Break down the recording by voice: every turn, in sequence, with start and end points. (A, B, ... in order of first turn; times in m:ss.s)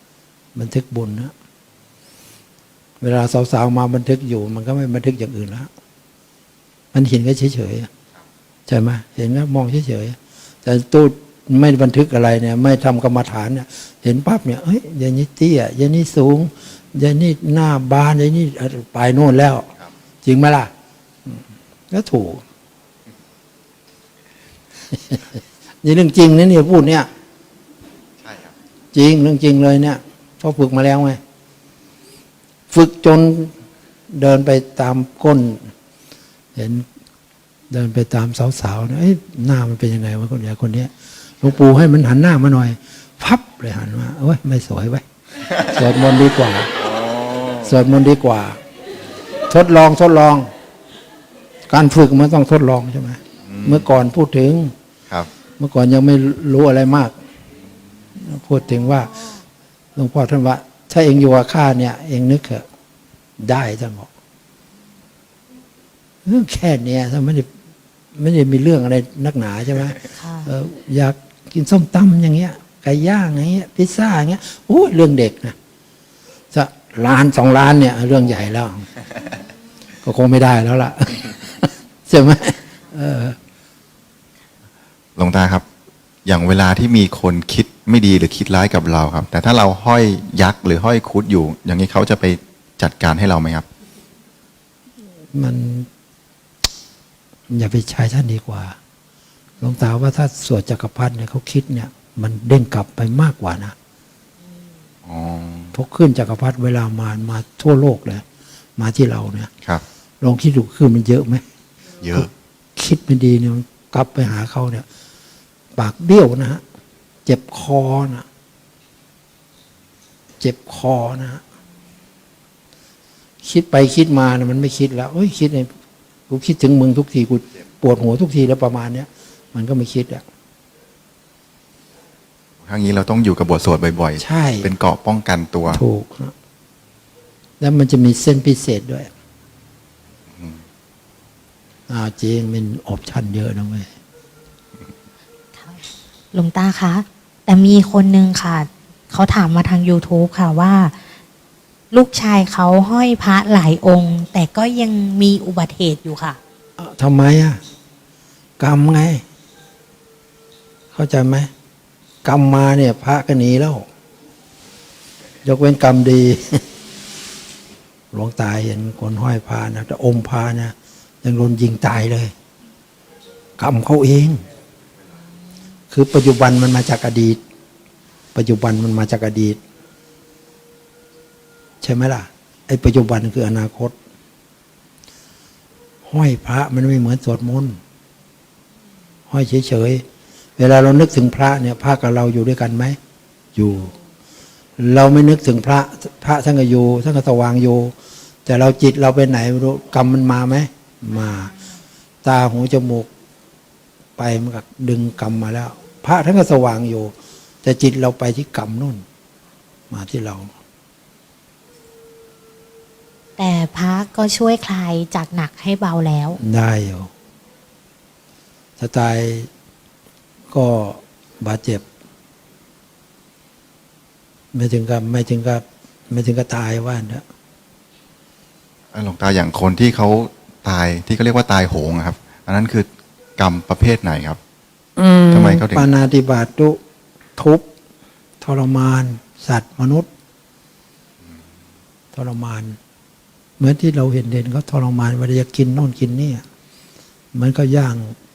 0:00.6-0:01.3 A
0:03.0-0:05.7 A
0:06.9-0:07.9 A
0:08.7-0:19.7 A
0:20.2-0:20.7 A
0:21.3-0:22.4 A
0:24.9-0:25.2 A
0:25.8-0:27.1 A
0:28.2-0:28.6 B
0:28.9-0:31.2 A
0:32.7-0:33.5 A
0:34.1-0:35.7 A
0:36.6-0:36.9 A
0:37.7-0:45.0 A
0:45.6-0:46.7 A
0:46.8-0:47.7 B
0:47.6-0:48.6 A
0:49.5-0:50.5 A
0:51.7-0:54.7 A
0:53.5-0:53.9 B
0:55.6-0:57.2 A
0:58.2-0:59.1 A
1:00.0-1:02.6 A
1:03.4-1:04.1 A
1:06.2-1:07.5 A
1:08.1-1:15.6 A
1:10.1-1:10.5 C
1:16.5-1:18.9 A
1:20.0-1:23.4 A
1:25.2-1:25.6 B
1:26.3-1:33.7 B
1:35.3-1:35.9 A
1:37.5-1:38.8 A
1:39.6-1:43.8 A
1:45.1-1:45.7 B
1:45.7-1:48.2 A
1:48.8-1:49.5 A
1:50.2-1:51.4 A
1:52.0-1:52.3 B
1:52.1-1:54.9 A
1:55.8-1:56.6 A
1:57.3-1:58.3 A
2:00.4-2:01.4 A
2:03.4-2:05.7 A
2:06.3-2:10.2 A
2:12.7-2:15.8 B
2:14.2-2:14.7 A
2:15.7-2:16.3 A
2:17.6-2:19.1 A
2:21.9-2:23.9 A
2:25.6-2:31.0 C
2:31.9-2:36.4 C
2:36.8-2:37.6 A
2:38.6-2:39.2 A
2:40.9-2:41.5 A
2:42.2-2:43.9 A
2:45.4-2:46.7 A
2:48.1-2:52.3 A
2:53.6-2:54.4 A
2:55.9-2:57.4 A
2:58.4-2:59.6 A
3:01.8-3:04.0 A
3:06.1-3:07.8 A
3:09.3-3:10.1 A
3:10.6-3:13.0 A
3:13.6-3:13.9 A
3:14.8-3:17.9 A
3:18.5-3:21.6 A
3:22.2-3:23.1 A
3:24.2-3:29.0 A
3:29.9-3:30.5 A
3:33.4-3:36.4 C
3:36.4-3:37.1 A
3:38.8-3:39.5 A
3:40.5-3:41.9 A
3:44.5-3:47.2 A
3:48.9-3:52.9 B
3:53.4-3:54.4 B
3:55.0-3:56.8 A
3:55.3-3:55.9 B
3:57.4-3:57.7 A
3:58.4-4:00.1 A
4:02.1-4:02.8 A
4:03.6-4:06.4 A
4:07.3-4:08.1 A